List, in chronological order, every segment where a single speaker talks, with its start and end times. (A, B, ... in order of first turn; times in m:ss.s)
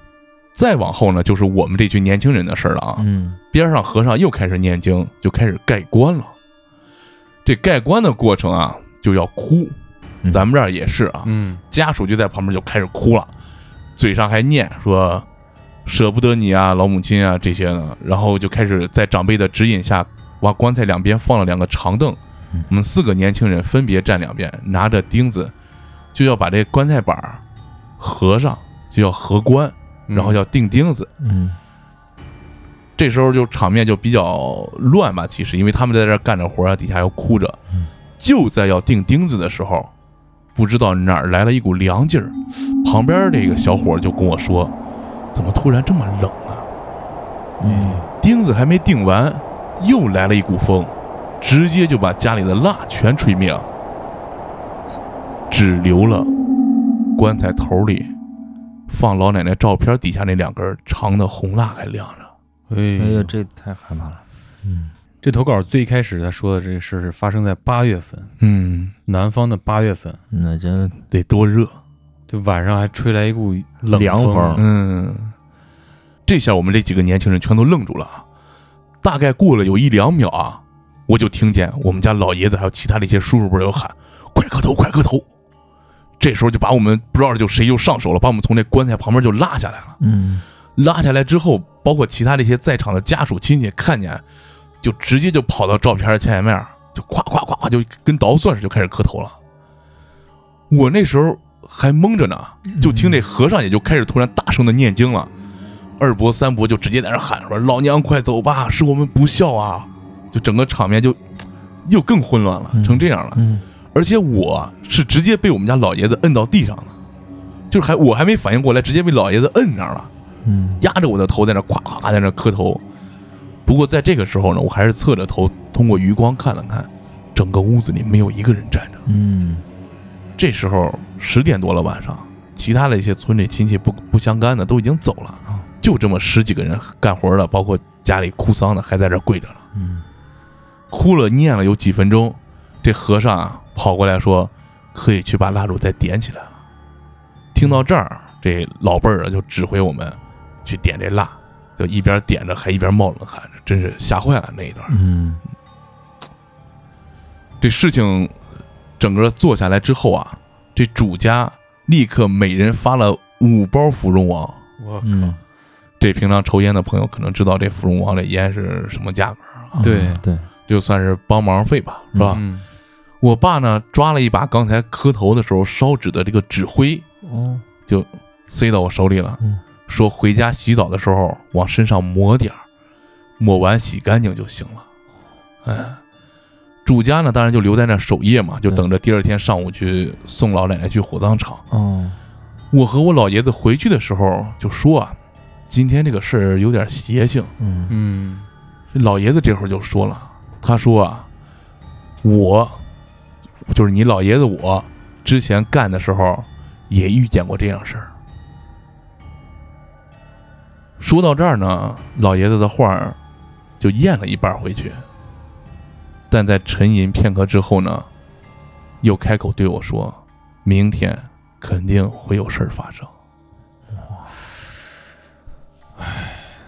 0:00.6-0:06.3 A
0:03.0-0:03.4 B
0:07.4-0:09.8 A
0:10.3-0:13.3 A
0:11.2-0:11.6 C
0:14.0-0:15.3 A
0:15.8-0:25.5 A
0:26.1-0:27.4 A
0:28.0-0:31.1 A
0:30.1-0:30.4 C
0:31.2-0:31.6 B
0:33.0-0:37.6 A
0:38.2-0:39.9 A
0:40.6-0:44.7 A
0:45.3-0:46.7 A
0:47.6-0:48.0 B
0:47.7-0:53.7 A
0:55.5-0:56.3 A
0:57.2-0:58.1 A
0:58.9-1:02.3 A
1:02.7-1:03.3 C
1:03.0-1:04.9 B
1:05.2-1:08.3 C
1:08.4-1:09.0 A
1:09.1-1:10.2 C
1:10.3-1:11.0 B
1:11.1-1:11.8 A
1:12.3-1:14.7 C
1:13.9-1:14.7 B
1:14.6-1:15.3 A
1:16.3-1:18.2 A
1:19.0-1:25.2 A
1:26.2-1:30.0 A
1:30.0-1:30.4 B
1:30.8-1:34.2 A
1:34.8-1:39.4 A
1:40.7-1:45.3 A
1:42.7-1:43.3 B
1:46.0-1:51.2 A
1:51.9-1:53.4 A
1:52.7-1:53.6 B
1:53.9-1:56.9 A
1:57.7-2:00.1 A
2:00.4-2:00.8 B
2:00.8-2:02.8 A
2:03.6-2:09.0 A
2:09.1-2:09.6 B
2:10.4-2:19.6 A
2:19.8-2:20.0 B
2:20.9-2:26.5 A
2:27.5-2:35.0 A
2:34.9-2:35.4 B
2:37.6-2:38.4 A
2:39.0-2:44.6 A
2:44.8-2:45.4 C
2:45.0-2:45.4 B
2:46.0-2:49.8 A
2:49.8-2:50.5 B
2:49.8-2:50.2 C
2:50.7-2:52.4 A
2:52.1-2:52.4 B
2:52.3-2:52.7 C
2:53.2-2:57.0 A
2:57.2-2:57.7 B
2:57.9-3:02.6 A
3:03.4-3:04.8 A
3:05.6-3:06.0 A
3:06.8-3:11.6 A
3:11.7-3:12.2 B
3:12.7-3:15.2 A
3:15.7-3:17.5 A
3:17.6-3:18.0 B
3:17.9-3:18.5 C
3:18.9-3:21.3 A
3:22.2-3:22.8 A
3:23.7-3:28.1 A
3:31.0-3:33.2 A
3:33.8-3:35.0 A
3:36.3-3:38.1 A
3:39.0-3:43.1 A
3:46.0-3:46.5 C